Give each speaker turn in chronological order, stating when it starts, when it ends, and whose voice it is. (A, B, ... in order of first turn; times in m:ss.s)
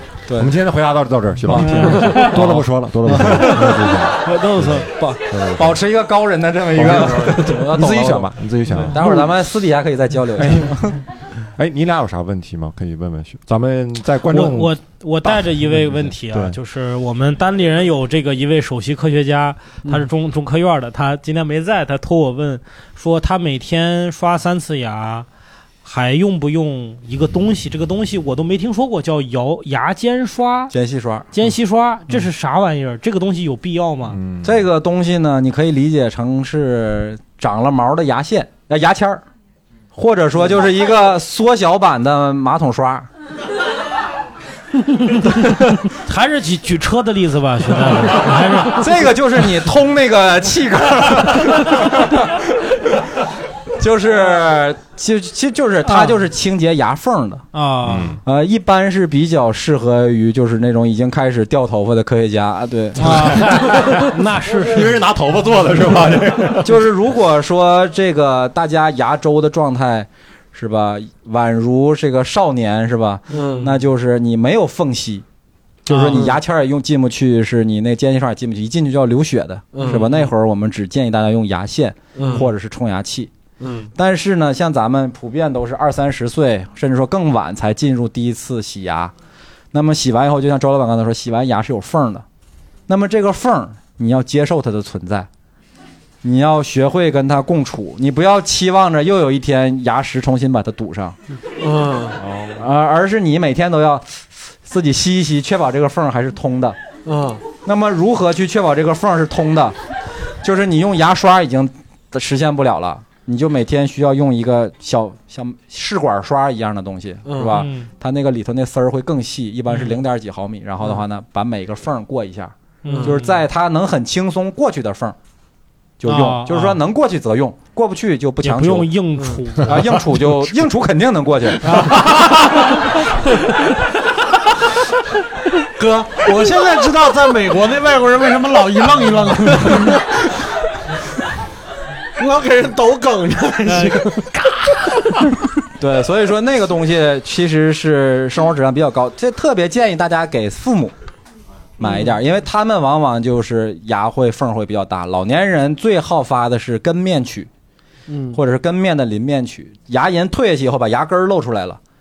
0:00.4-0:05.8 A
0:01.6-0:02.4 B
0:02.2-0:03.6 C
0:03.2-0:04.9 B
0:05.0-0:08.3 C
0:06.7-0:09.1 A
0:08.9-0:11.0 C
0:10.4-0:10.8 A
0:11.6-0:16.6 A
0:14.3-0:25.3 B
0:25.8-0:30.7 B
0:30.7-0:31.3 C
0:31.3-0:34.2 B
0:34.1-0:34.7 A
0:34.4-0:39.2 C
0:40.0-0:43.1 C
0:45.9-0:49.0 B
0:48.8-0:52.0 C
0:53.8-0:57.4 C
0:55.9-0:56.2 B
0:57.5-0:58.2 B
0:57.8-0:58.2 A
0:58.2-1:03.4 C
1:03.0-1:05.0 B
1:03.0-1:06.8 A
1:06.6-1:15.2 C
1:13.3-1:13.8 D
1:15.9-1:16.4 D
1:15.9-1:23.3 C
1:19.7-1:20.3 D
1:22.2-1:22.5 D
1:23.6-1:23.9 D
1:24.0-1:29.1 C
1:29.7-1:32.2 C
1:32.9-1:35.3 C
1:36.2-1:41.2 C
1:41.6-1:42.2 D
1:42.2-1:42.6 A
1:42.6-1:46.8 C
1:47.0-1:47.4 D
1:47.6-1:49.8 C
1:50.4-2:05.2 C
1:57.3-1:57.5 D
1:57.5-1:57.9 B
1:59.7-2:00.0 B
2:02.8-2:03.4 B
2:02.9-2:03.2 D
2:06.0-2:08.9 C
2:06.0-2:06.8 B
2:08.4-2:10.3 B
2:09.2-2:09.4 D
2:09.6-2:11.7 C
2:11.6-2:12.8 B
2:11.8-2:12.1 D
2:15.8-2:20.3 D
2:22.2-2:24.2 D
2:23.7-2:25.2 B
2:25.8-2:30.9 C
2:31.8-2:37.5 C
2:31.8-2:32.1 D
2:38.1-2:38.4 D
2:38.3-2:41.8 C